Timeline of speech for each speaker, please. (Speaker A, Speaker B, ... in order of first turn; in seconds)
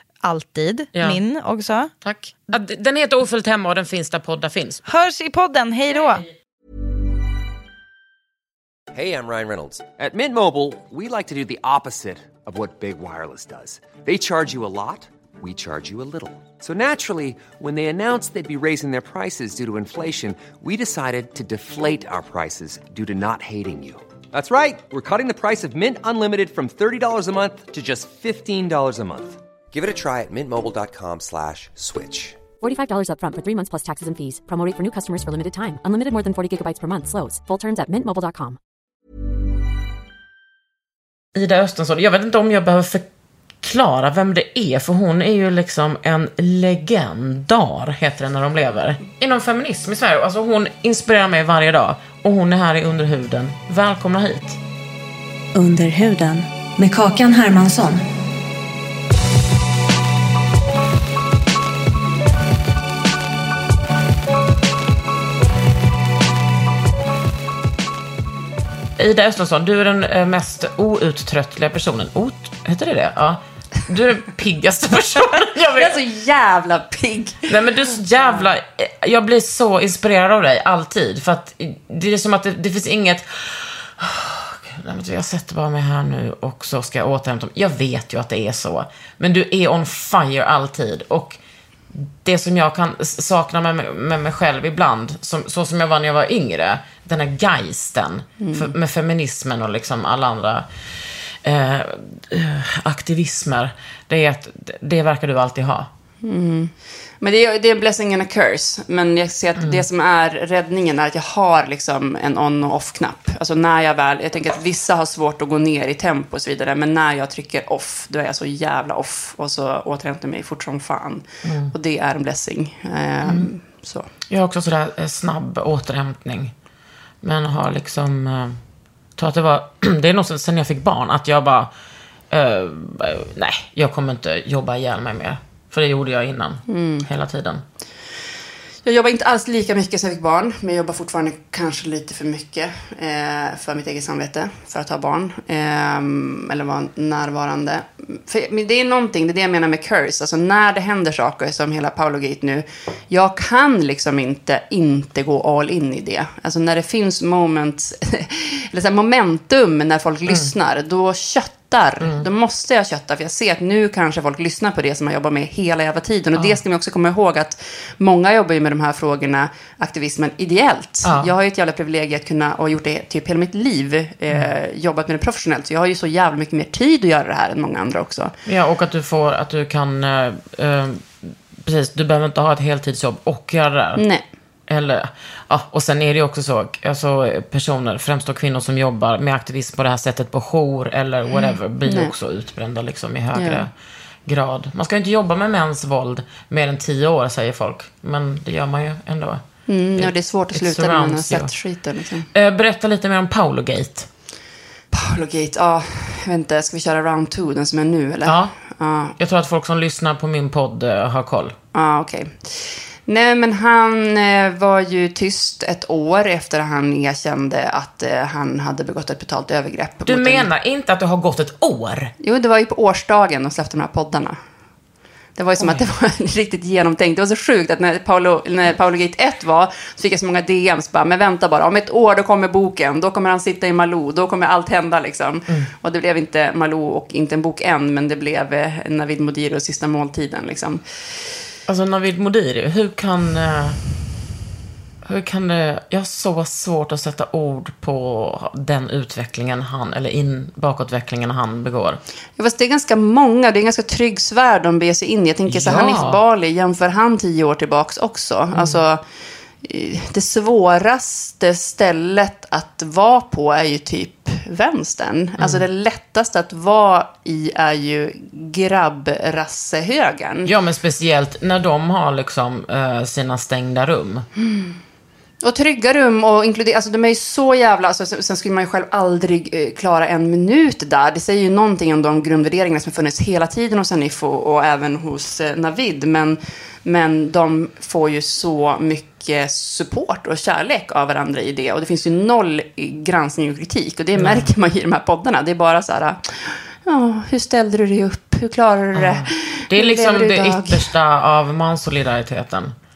Speaker A: 0.2-1.9, 4.9-6.2
Speaker B: 0.9-1.2, 2.0-4.8, 41.4-43.0, 43.6-54.6, 69.0-75.9, 77.5-91.4, 91.9-100.7, 101.4-105.9, 121.4-121.7, 123.2-123.5, 124.3-126.5, 127.2-128.6, 129.2-131.7, 132.3-137.6, 162.0-162.3, 171.0-171.3, 178.5-184.0, 184.7-193.7, 194.3-199.4, 200.0-201.5, 202.3-204.1, 208.3-208.5, 209.2-211.6, 220.1-222.1, 225.6-225.8, 241.7-243.8, 245.1-252.0, 255.5-256.2, 258.5-258.8, 265.4-265.6, 270.4-274.3, 294.2-294.5, 298.9-302.7
Speaker C: 8.9-32.4
Speaker D: 32.6-38.6
Speaker E: 55.5-58.0
Speaker F: 75.8-77.6, 78.2-78.5, 98.4-98.7, 106.2-124.1, 136.7-137.1, 138.8-178.3, 184.0-184.2, 191.3-192.1, 193.3-193.7, 199.7-202.3, 204.9-209.2, 211.7-220.5, 222.2-224.4, 225.4-240.8, 252.4-259.0, 259.6-270.5, 274.4-274.8, 275.4-300.9